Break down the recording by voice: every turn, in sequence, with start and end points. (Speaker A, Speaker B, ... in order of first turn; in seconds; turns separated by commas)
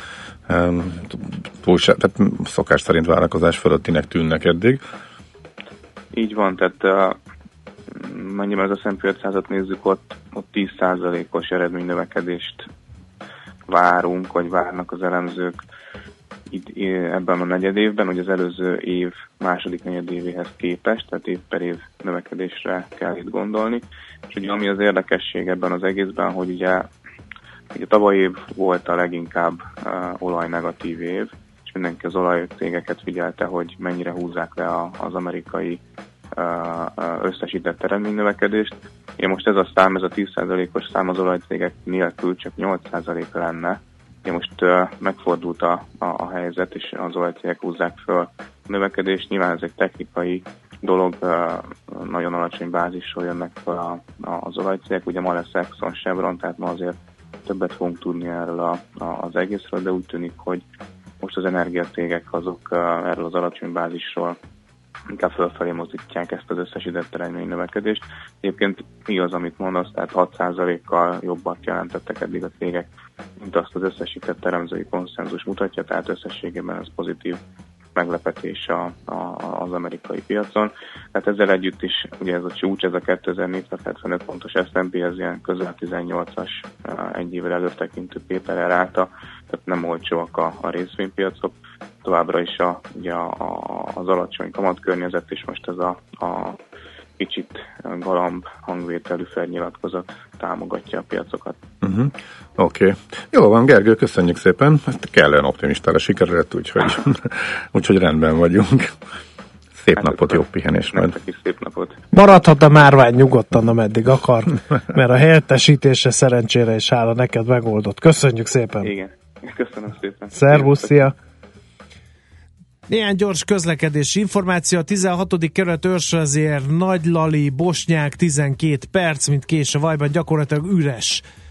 Speaker A: 0.5-4.8, Speaker B: 6.1-7.2, Speaker B: 7.9-12.7, Speaker B: 13.7-15.6, Speaker B: 16.5-26.9, Speaker B: 27.7-35.8, Speaker B: 36.4-56.9, Speaker B: 57.5-60.6, Speaker B: 61.2-64.4, Speaker B: 65.1-72.9, Speaker B: 73.4-77.4, Speaker B: 78.0-96.6, Speaker B: 97.2-101.6, Speaker A: 101.8-109.0, Speaker A: 109.7-111.1, Speaker B: 110.0-112.0, Speaker C: 112.1-118.9, Speaker B: 118.8-121.0, Speaker C: 120.3-121.1, Speaker C: 122.9-131.2